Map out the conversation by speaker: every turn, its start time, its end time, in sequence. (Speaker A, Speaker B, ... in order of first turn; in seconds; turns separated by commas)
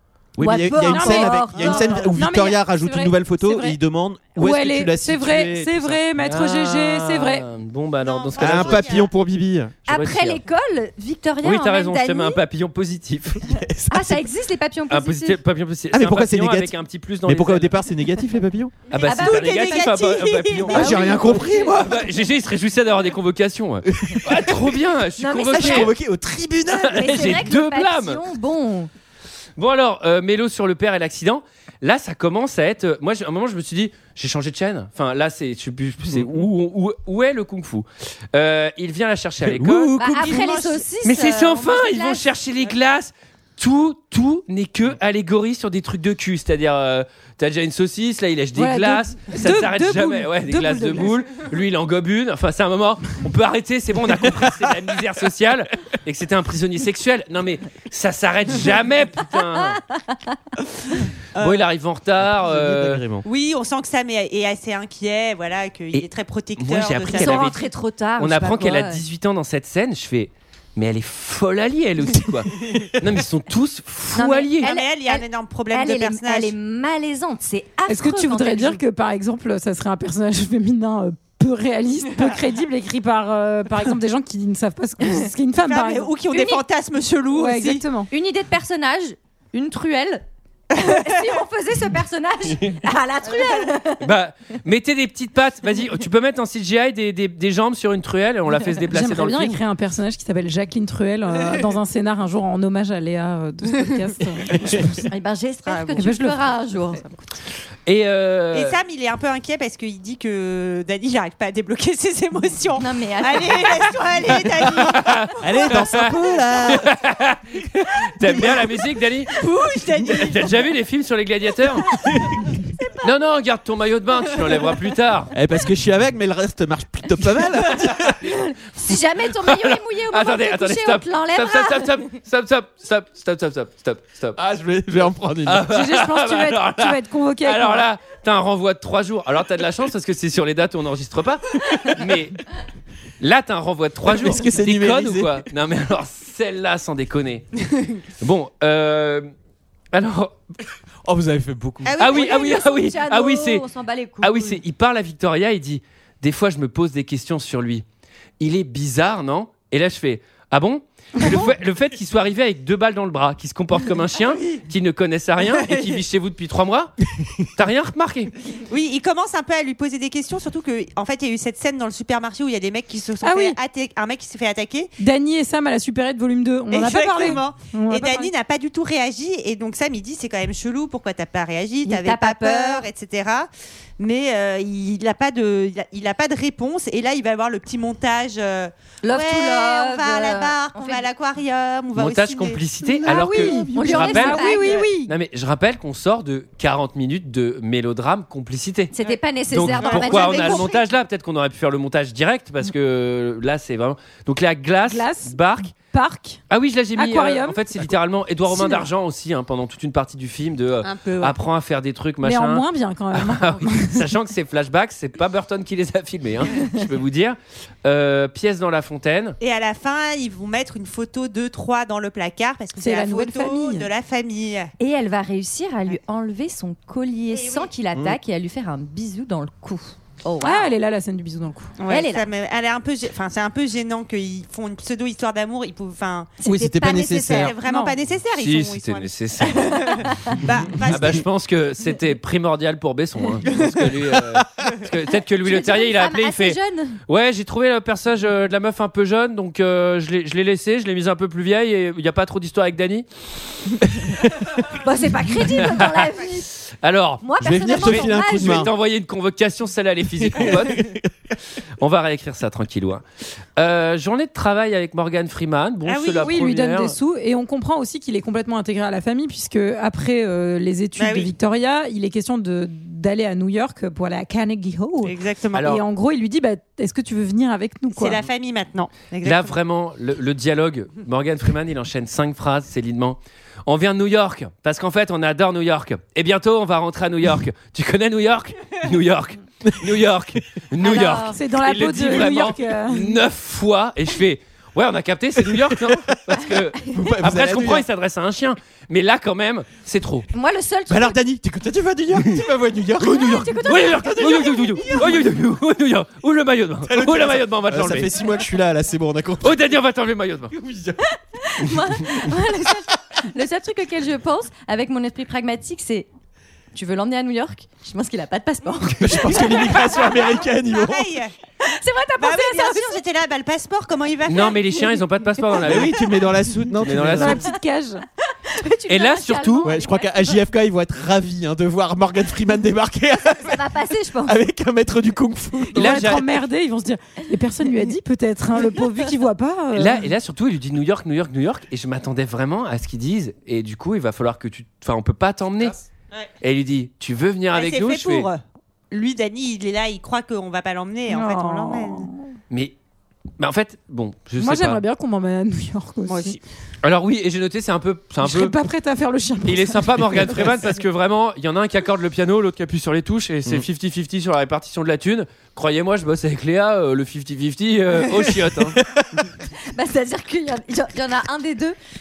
Speaker A: 0.3-6.0, Speaker B: 0.4-2.1, Speaker C: 0.8-3.8, Speaker C: 4.3-7.4, Speaker D: 6.2-9.1, Speaker E: 8.0-9.1, Speaker A: 8.4-9.7, Speaker D: 9.9-10.4, Speaker B: 9.9-12.4, Speaker D: 11.4-13.4, Speaker A: 13.4-14.2, Speaker B: 13.9-15.4, Speaker D: 14.9-17.8, Speaker A: 15.9-16.7, Speaker A: 17.2-18.8, Speaker D: 18.9-25.9, Speaker E: 19.0-21.3, Speaker B: 19.0-21.8, Speaker A: 20.7-22.1, Speaker A: 23.9-24.7, Speaker B: 25.2-25.9, Speaker A: 25.5-27.4, Speaker D: 26.7-28.2, Speaker B: 26.9-28.9, Speaker D: 29.6-40.0, Speaker A: 36.1-36.3, Speaker A: 39.4-40.6, Speaker B: 40.0-42.3, Speaker E: 40.1-40.8, Speaker D: 41.0-59.8, Speaker C: 48.5-51.1, Speaker E: 61.4-61.6, Speaker D: 61.4-63.0, Speaker A: 62.2-63.2, Speaker E: 63.2-67.5, Speaker D: 65.9-67.7, Speaker B: 67.1-69.0, Speaker D: 68.2-74.7, Speaker B: 74.1-78.8, Speaker E: 74.6-76.5, Speaker C: 77.9-86.1, Speaker E: 85.6-87.8, Speaker B: 86.3-86.6, Speaker C: 87.3-88.1, Speaker B: 88.1-94.0, Speaker E: 90.8-91.0, Speaker E: 93.3-93.7, Speaker D: 94.0-99.6, Speaker C: 98.8-105.0, Speaker B: 104.6-107.0, Speaker C: 105.9-106.4, Speaker D: 107.8-108.8, Speaker E: 108.5-115.7, Speaker B: 112.8-114.4, Speaker D: 114.7-116.1, Speaker A: 115.4-117.0, Speaker D: 116.6-119.4, Speaker E: 119.3-120.5, Speaker D: 120.1-121.9, Speaker D: 123.0-125.3, Speaker A: 125.3-128.3, Speaker B: 128.2-132.0, Speaker D: 129.3-134.4, Speaker A: 134.4-135.7, Speaker D: 135.4-142.4, Speaker C: 135.7-137.9, Speaker D: 143.2-147.5, Speaker A: 144.0-145.4, Speaker D: 148.2-149.3, Speaker D: 149.9-150.4, Speaker A: 151.0-152.0, Speaker E: 151.8-152.5, Speaker D: 152.0-153.6, Speaker B: 152.0-154.6, Speaker D: 154.2-157.8, Speaker D: 158.4-168.3, Speaker E: 165.5-165.9, Speaker E: 168.7-174.9, Speaker C: 173.2-173.6, Speaker C: 175.0-178.3, Speaker E: 176.7-192.6, Speaker B: 181.8-182.8, Speaker B: 189.0-191.1, Speaker D: 191.9-194.5, Speaker C: 193.0-195.1, Speaker A: 193.2-193.7, Speaker B: 193.6-194.9, Speaker D: 195.1-198.9, Speaker B: 198.9-200.7, Speaker D: 199.5-205.7, Speaker E: 199.7-200.7, Speaker C: 204.8-206.4, Speaker D: 206.5-219.4, Speaker C: 206.9-207.6, Speaker C: 208.5-208.9, Speaker E: 210.8-211.4, Speaker C: 212.2-214.1, Speaker E: 219.4-224.7, Speaker C: 222.8-223.9, Speaker B: 224.8-230.7, Speaker E: 227.3-227.7, Speaker C: 230.4-231.7, Speaker E: 231.8-236.3, Speaker B: 231.9-232.3, Speaker B: 236.4-237.6, Speaker A: 236.4-237.6, Speaker E: 237.3-241.2, Speaker C: 237.6-238.0, Speaker D: 238.3-240.0, Speaker B: 239.7-240.1, Speaker A: 240.7-241.2, Speaker D: 240.8-253.1, Speaker B: 245.4-247.0, Speaker B: 254.7-256.5, Speaker D: 255.6-260.9, Speaker B: 257.2-258.7, Speaker A: 257.4-258.7, Speaker A: 260.2-261.1, Speaker D: 261.8-263.0, Speaker D: 263.6-266.9, Speaker E: 265.8-266.3, Speaker C: 266.2-278.2, Speaker E: 271.0-271.3, Speaker E: 275.0-275.7, Speaker D: 275.5-275.8, Speaker E: 277.9-279.5, Speaker D: 279.2-300.3, Speaker B: 290.8-291.4, Speaker C: 291.3-293.2, Speaker A: 295.4-297.9, Speaker B: 300.3-301.2, Speaker A: 300.9-305.1, Speaker D: 303.0-308.1, Speaker B: 303.0-305.1, Speaker A: 306.8-309.7, Speaker D: 309.4-310.5, Speaker A: 310.5-311.0, Speaker B: 311.4-316.1, Speaker B: 316.7-320.1, Speaker A: 319.0-321.1, Speaker E: 320.0-321.3, Speaker B: 321.6-323.0, Speaker E: 322.2-325.0, Speaker D: 324.2-326.0, Speaker A: 325.6-327.4, Speaker D: 326.8-327.5, Speaker C: 327.1-328.0, Speaker B: 328.4-330.4, Speaker D: 328.9-329.7, Speaker A: 329.6-336.1, Speaker B: 333.2-334.4, Speaker C: 335.7-340.1, Speaker D: 335.7-336.2, Speaker D: 339.7-345.8, Speaker D: 346.4-348.3, Speaker E: 347.5-352.1, Speaker C: 351.1-352.2, Speaker D: 352.5-352.7, Speaker D: 353.4-354.8, Speaker C: 354.4-356.4, Speaker E: 356.1-356.4, Speaker D: 356.8-358.5, Speaker C: 358.2-360.7, Speaker D: 359.4-368.8, Speaker B: 369.7-371.8